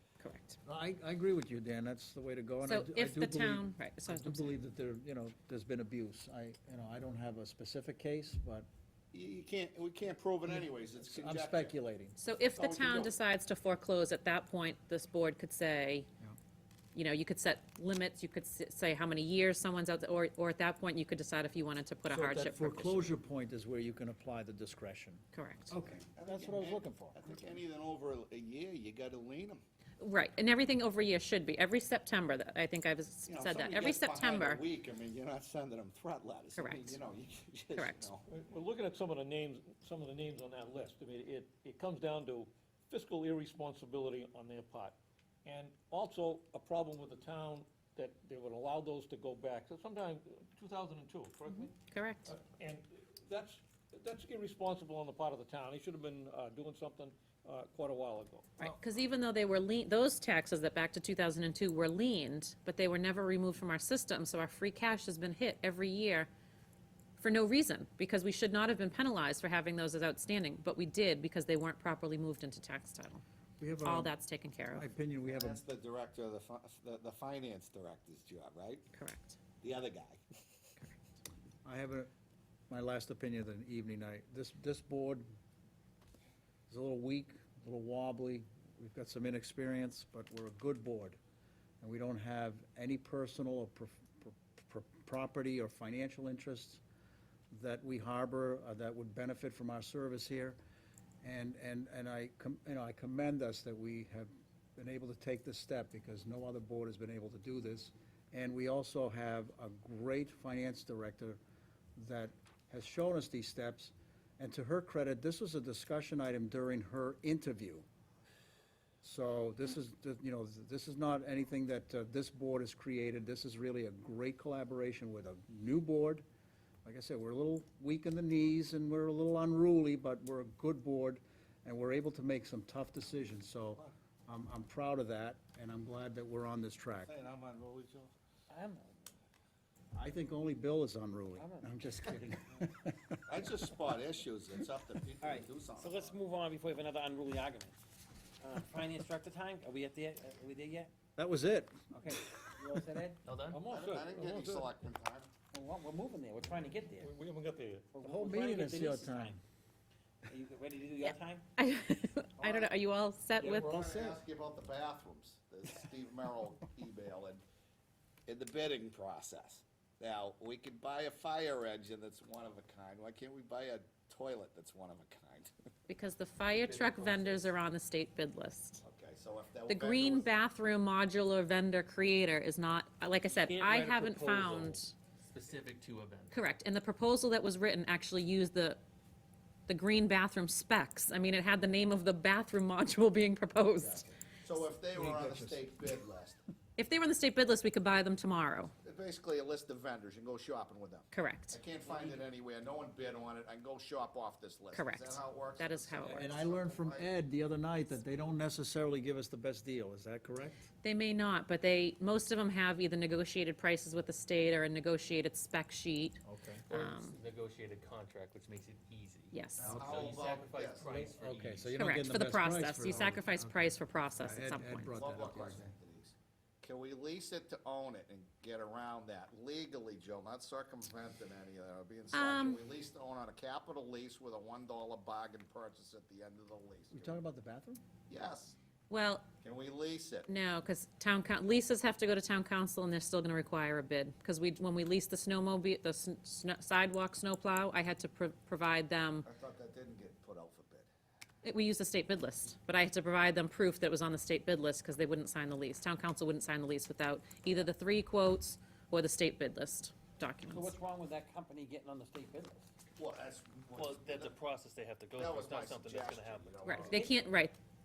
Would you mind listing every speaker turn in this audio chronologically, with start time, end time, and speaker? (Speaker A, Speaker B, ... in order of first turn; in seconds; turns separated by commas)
Speaker A: 0.2-0.6, Speaker B: 0.7-8.7, Speaker A: 2.6-4.5, Speaker C: 9.1-11.7, Speaker B: 10.5-12.2, Speaker A: 12.2-16.1, Speaker C: 12.6-13.1, Speaker A: 16.9-23.1, Speaker B: 22.1-27.2, Speaker A: 25.3-25.7, Speaker C: 26.0-29.6, Speaker A: 30.0-34.6, Speaker C: 33.2-38.2, Speaker A: 36.5-37.0, Speaker A: 37.7-38.1, Speaker D: 38.3-51.7, Speaker A: 51.5-52.4, Speaker D: 52.3-58.7, Speaker A: 58.6-66.3, Speaker A: 67.2-73.2, Speaker B: 73.6-74.1, Speaker A: 73.8-74.9, Speaker B: 74.7-75.6, Speaker C: 75.2-78.9, Speaker A: 78.9-79.4, Speaker C: 79.6-80.2, Speaker B: 81.6-82.1, Speaker B: 82.7-85.3, Speaker B: 86.7-91.2, Speaker B: 91.8-96.8, Speaker B: 97.5-100.6, Speaker B: 101.2-111.4, Speaker B: 112.0-117.8, Speaker B: 119.0-126.2, Speaker B: 126.8-137.1, Speaker C: 137.0-138.1, Speaker E: 138.5-139.1, Speaker B: 139.9-143.4, Speaker E: 141.3-141.8, Speaker C: 143.3-146.2, Speaker E: 145.2-147.8, Speaker E: 148.4-150.9, Speaker B: 151.2-152.6, Speaker E: 151.9-153.9, Speaker F: 153.2-153.6, Speaker C: 153.7-155.3, Speaker D: 153.8-154.7, Speaker E: 155.5-157.1, Speaker D: 157.0-157.9, Speaker E: 157.9-159.4, Speaker B: 158.0-159.3, Speaker E: 160.3-161.4, Speaker A: 161.0-163.7, Speaker B: 163.4-164.2, Speaker C: 163.5-167.4, Speaker C: 168.3-175.5, Speaker A: 175.9-178.8, Speaker F: 176.5-177.5, Speaker C: 178.8-180.3, Speaker A: 179.7-184.9, Speaker F: 183.3-186.3, Speaker A: 186.3-188.8, Speaker A: 189.7-194.1, Speaker C: 194.4-196.4, Speaker B: 194.9-195.6, Speaker A: 196.8-198.7, Speaker C: 198.8-207.1, Speaker A: 201.1-201.6, Speaker A: 204.7-206.3, Speaker B: 206.0-210.7, Speaker A: 210.8-217.2, Speaker B: 216.2-216.6, Speaker F: 216.7-221.8, Speaker A: 219.3-219.8, Speaker C: 219.6-221.0, Speaker B: 219.7-220.0, Speaker B: 220.8-225.7, Speaker A: 221.8-225.0, Speaker C: 224.9-237.2, Speaker A: 232.1-232.6, Speaker B: 236.9-237.8, Speaker C: 238.1-238.6, Speaker A: 238.9-239.3, Speaker C: 239.4-240.3, Speaker A: 240.3-249.3, Speaker C: 249.2-250.9, Speaker A: 251.4-260.7, Speaker E: 260.4-262.7, Speaker C: 262.9-264.4, Speaker F: 263.7-266.8, Speaker C: 265.1-267.2, Speaker A: 266.6-267.6, Speaker E: 266.8-267.3